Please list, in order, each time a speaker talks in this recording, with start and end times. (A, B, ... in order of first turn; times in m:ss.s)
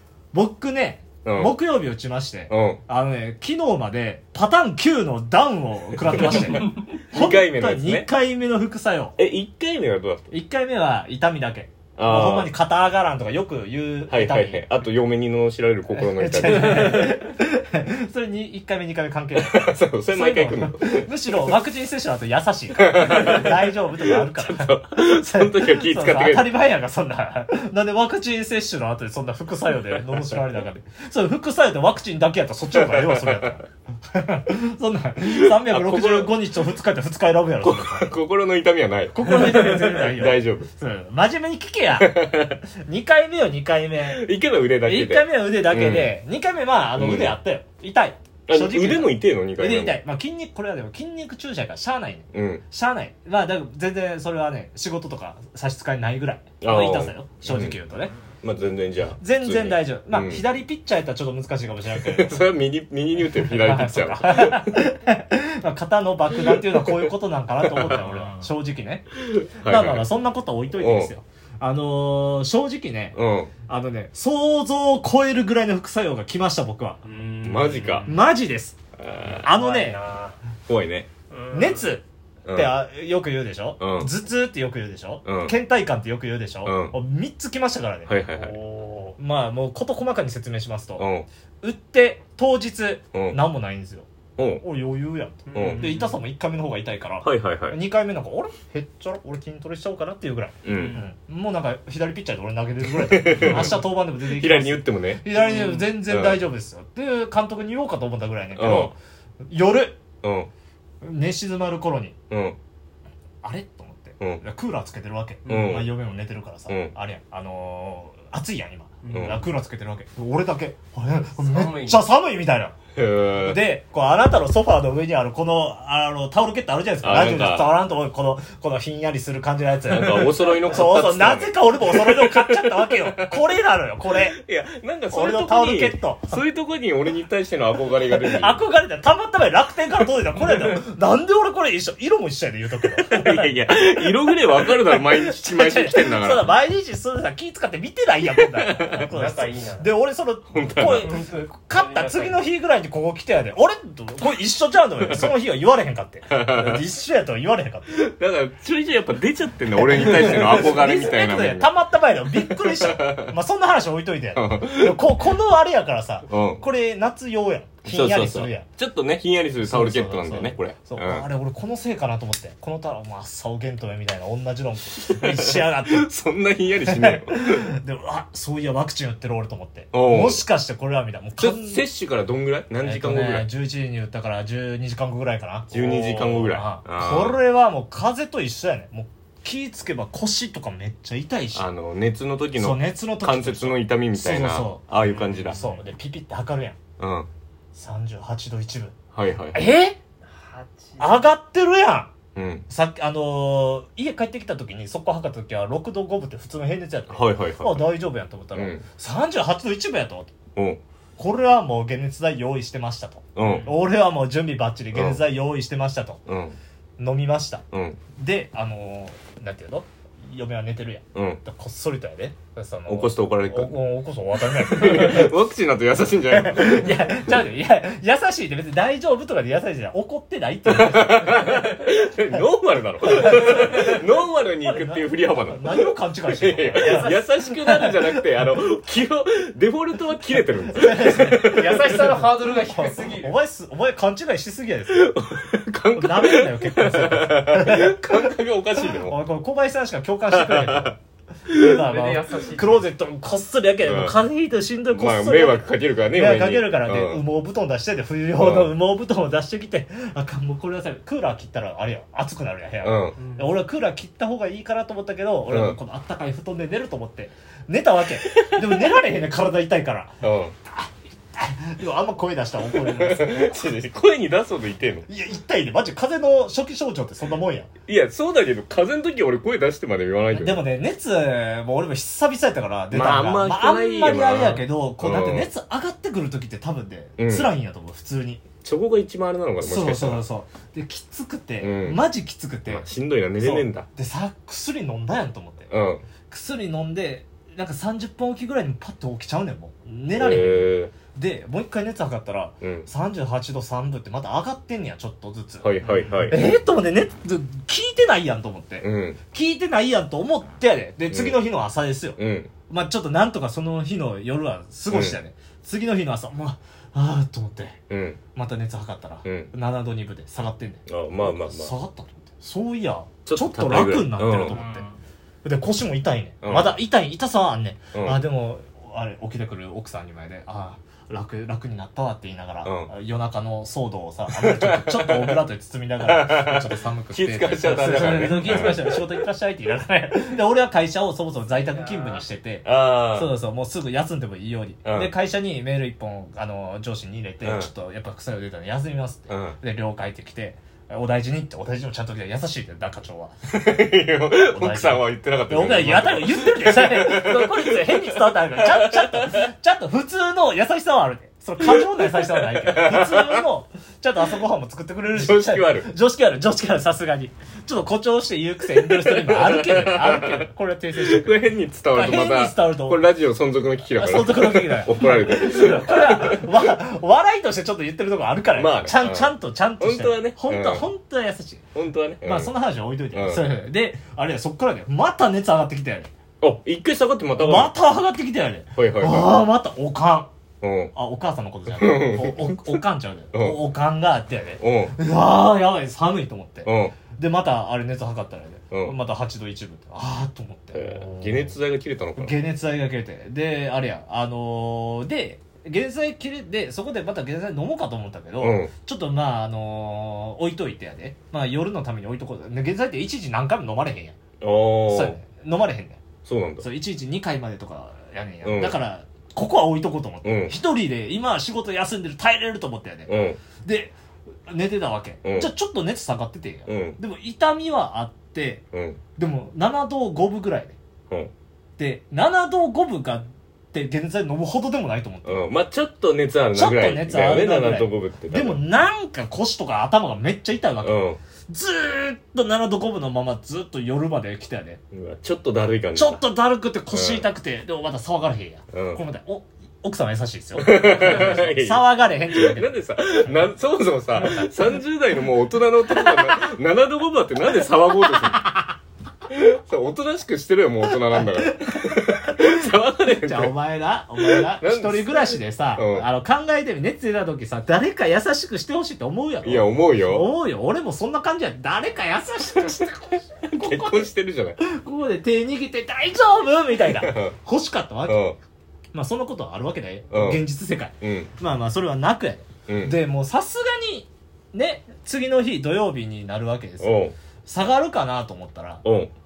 0:00.3-0:09.2 A
0:01.2-0:01.5 B
0:02.5-0:02.8 B
0:06.0-0:08.1 B
0:06.5-0:06.8 C
0:09.2-0:10.3 B
0:10.3-0:14.6 A
0:12.0-0:12.5 B
0:14.1-0:17.2 B
0:15.9-0:38.1 A
0:19.4-0:21.5 B
0:22.8-0:26.5 B
0:32.7-0:33.6 B
0:35.2-0:36.4 B
0:37.6-0:40.7 B
0:39.2-0:44.3 A
0:42.0-0:42.6 B
0:44.0-0:46.2 B
0:44.8-0:58.1 A
0:47.0-0:47.4 B
0:48.5-0:50.0 B
0:52.3-0:52.6 B
0:56.6-0:57.8 B
0:58.4-1:00.4 B
0:59.2-1:02.4 A
1:01.9-1:04.8 B
1:03.5-1:09.1 A
1:06.4-1:07.1 B
1:07.6-1:08.0 B
1:09.2-1:10.1 B
1:09.6-1:17.0 A
1:10.8-1:11.1 B
1:13.1-1:13.5 B
1:17.0-1:18.2 C
1:17.4-1:18.1 B
1:18.1-1:18.8 A
1:19.0-1:19.4 B
1:19.3-1:20.4 C
1:19.4-1:20.0 A
1:20.7-1:21.1 B
1:21.3-1:21.9 C
1:21.5-1:28.2 A
1:22.4-1:22.7 B
1:23.8-1:24.1 B
1:25.2-1:25.5 B
1:26.6-1:27.0 B
1:28.1-1:28.6 B
1:28.3-1:29.2 C
1:29.2-1:31.1 A
1:31.0-1:31.3 B
1:31.6-1:34.1 A
1:33.1-1:33.4 B
1:34.4-1:34.6 B
1:34.6-1:50.0 A
1:35.5-1:36.2 C
1:35.5-1:35.9 B
1:37.2-1:37.8 B
1:40.6-1:41.0 B
1:40.7-1:41.1 C
1:42.8-1:45.2 B
1:43.4-1:43.7 C
1:45.4-1:45.9 C
1:46.1-1:46.4 B
1:48.6-1:48.9 B
1:50.2-1:50.5 B
1:51.0-1:52.2 A
1:52.3-1:52.6 B
1:53.4-2:02.8 A
1:55.4-1:55.8 C
1:55.5-1:55.9 B
1:56.7-1:56.9 B
1:59.0-1:59.4 C
1:59.1-1:59.4 B
2:01.4-2:02.1 C
2:03.0-2:03.6 B
2:03.4-2:14.4 A
2:07.0-2:07.7 B
2:09.9-2:13.5 B
2:14.1-2:18.6 B
2:15.1-2:16.4 A
2:18.2-2:38.0 A
2:23.0-2:26.5 B
2:28.5-2:29.1 B
2:29.0-2:29.9 C
2:30.5-2:31.1 B
2:31.0-2:32.5 C
2:36.3-2:36.8 B
2:37.9-2:41.7 B
2:39.7-2:48.7 A
2:42.3-2:43.3 B
2:44.4-2:45.0 B
2:46.3-2:46.6 B
2:47.8-2:51.3 B
2:49.6-2:56.1 A
2:55.0-2:57.7 B
2:56.8-3:01.9 A
2:59.9-3:00.4 B
3:01.4-3:03.5 B
3:02.8-3:11.7 A
3:05.7-3:07.4 B
3:05.8-3:06.5 C
3:11.5-3:15.7 B
3:12.6-3:14.8 A
3:15.0-3:15.8 C
3:15.5-3:16.8 A
3:17.0-3:17.3 B
3:17.8-3:19.0 A
3:19.1-3:19.7 B
3:19.5-3:20.0 A
3:20.2-3:21.2 C
3:21.0-3:22.1 A
3:22.4-3:22.6 B
3:22.7-3:30.3 A
3:27.1-3:27.9 B
3:28.5-3:28.8 B
3:30.6-3:30.8 B
3:31.2-3:36.2 A
3:33.4-3:33.7 B
3:33.4-3:33.8 C
3:34.9-3:35.2 B
3:36.3-3:36.6 B
3:37.0-3:37.6 A
3:37.7-3:38.0 B
3:38.2-3:45.3 A
3:41.1-3:41.4 B
3:42.9-3:43.8 B
3:44.4-3:47.3 B
3:46.3-3:51.8 A
3:50.7-4:02.2 B
3:53.1-3:54.0 A
3:54.6-3:58.0 A
4:00.7-4:05.2 A
4:01.0-4:03.3 C
4:04.9-4:09.2 B
4:05.9-4:33.6 A
4:10.3-4:10.9 B
4:11.6-4:12.9 C
4:13.8-4:14.2 B
4:14.9-4:17.2 B
4:18.4-4:18.7 B
4:22.8-4:23.2 B
4:23.2-4:23.5 C
4:25.5-4:25.8 B
4:28.2-4:28.8 B
4:30.2-4:30.5 B
4:32.7-4:35.1 B
4:35.1-4:37.7 A
4:37.9-4:40.6 B
4:40.3-4:48.4 A
4:42.9-4:45.5 B
4:47.2-4:47.5 B
4:48.6-4:50.2 B
4:49.6-4:52.8 A
4:51.6-4:52.0 B
4:52.7-4:53.9 B
4:53.4-4:55.7 A
4:55.7-4:56.0 B
4:56.3-5:17.8 A
5:00.2-5:00.9 B
5:02.6-5:02.9 B
5:05.6-5:06.5 B
5:08.8-5:09.2 B
5:11.1-5:11.4 B
5:12.2-5:12.5 B
5:14.9-5:15.2 B
5:17.9-5:18.2 B
5:18.3-5:24.8 A
5:19.2-5:19.5 B
5:20.9-5:21.7 B
5:23.3-5:24.6 B
5:24.5-5:25.0 C
5:25.4-5:53.5 A
5:26.4-5:26.8 B
5:27.9-5:28.2 B
5:32.6-5:32.9 B
5:34.3-5:35.4 B
5:36.0-5:39.2 B
5:41.6-5:42.2 C
5:42.6-5:43.3 B
5:44.8-5:45.1 B
5:47.4-5:47.7 B
5:49.3-5:49.6 B
5:53.5-5:59.5 B
5:54.4-6:11.4 A
6:01.6-6:03.5 B
6:05.1-6:05.9 B
6:08.8-6:16.7 B
6:11.9-6:13.0 A
6:14.0-6:21.6 A
6:18.6-6:20.9 B
6:21.7-6:22.5 B
6:22.2-6:26.1 A
6:23.1-6:23.5 B
6:26.4-6:27.7 B
6:27.4-6:30.3 A
6:28.8-6:29.4 B
6:30.6-6:30.9 B
6:30.9-6:41.5 A
6:31.7-6:32.8 B
6:33.3-6:33.6 B
6:34.6-6:35.0 B
6:36.6-6:37.0 B
6:40.7-6:42.4 B
6:42.2-6:54.2 A
6:48.4-6:48.7 B
6:54.4-6:55.2 B
6:54.9-6:56.0 A
6:56.2-6:56.6 B
6:56.6-7:03.1 A
6:58.4-6:58.8 B
7:00.2-7:00.6 B
7:03.1-7:03.4 B
7:03.6-7:03.9 A
7:04.5-7:08.6 A
7:05.2-7:05.5 B
7:06.7-7:07.0 B
7:08.7-7:09.0 B
7:09.2-7:10.8 A
7:11.8-7:15.4 A
7:15.3-7:18.6 B
7:16.6-7:24.8 A
7:20.8-7:21.2 B
7:24.9-7:26.2 B
7:26.0-7:33.5 A
7:26.9-7:27.3 B
7:28.7-7:29.0 B
7:30.6-7:38.5 B
7:34.2-7:34.6 A
7:36.0-7:36.4 A
7:38.1-7:38.7 A
7:39.3-7:43.6 B
7:41.0-7:58.2 A
7:44.2-7:46.1 B
7:49.4-7:50.3 B
7:53.5-7:54.6 B
7:57.0-7:57.3 B
7:58.1-7:58.4 B
7:58.9-8:08.8 A
8:00.1-8:00.4 B
8:01.0-8:01.3 B
8:02.7-8:03.0 B
8:06.8-8:07.2 B
8:08.8-8:09.1 B